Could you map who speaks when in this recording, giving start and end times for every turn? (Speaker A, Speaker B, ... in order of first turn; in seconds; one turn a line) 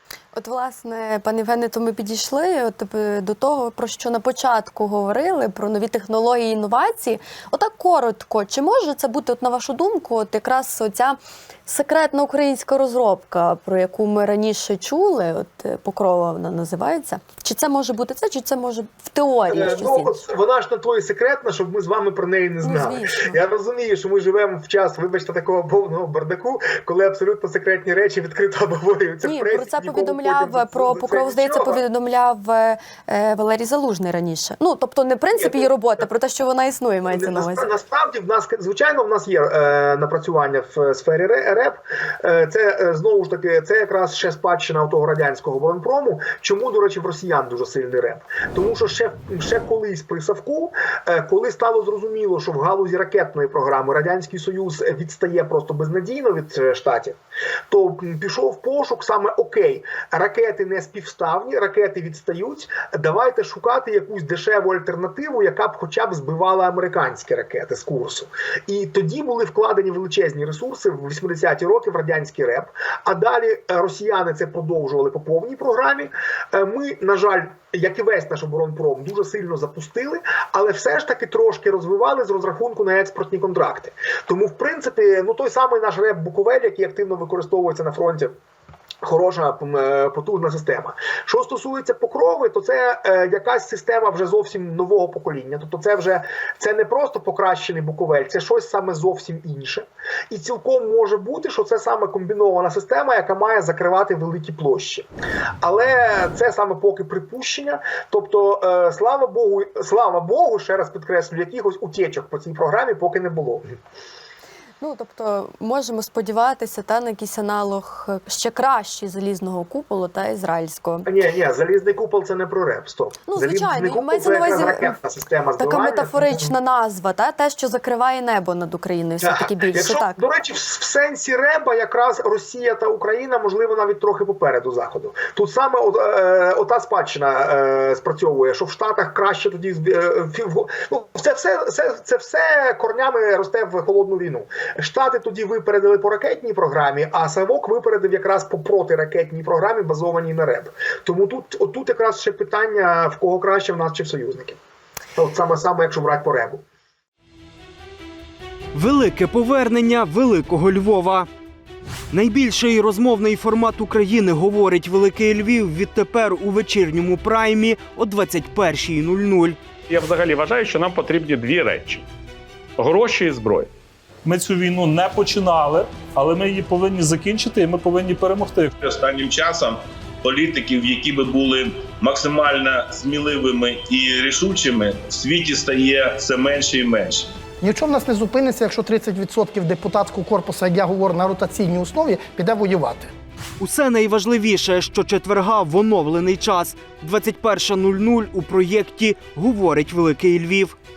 Speaker A: 0.3-20.2
Speaker B: 19.5-31.8
Speaker A: 22.6-23.4
Speaker A: 29.2-37.7
Speaker B: 35.3-36.0
Speaker B: 37.1-57.2
Speaker B: 57.7-88.3
Speaker B: 89.0-105.1
Speaker B: 105.6-113.7
Speaker A: 114.8-121.1
Speaker B: 121.0-126.5
Speaker A: 123.3-125.0
Speaker A: 125.6-130.2
Speaker B: 129.2-154.6
Speaker B: 155.2-156.6
Speaker C: 158.7-161.3
Speaker C: 162.1-169.6
Speaker D: 169.9-172.1
Speaker D: 172.8-173.7
Speaker E: 174.2-178.7
Speaker F: 178.8-187.3
Speaker G: 187.6-193.1
Speaker C: 193.6-200.8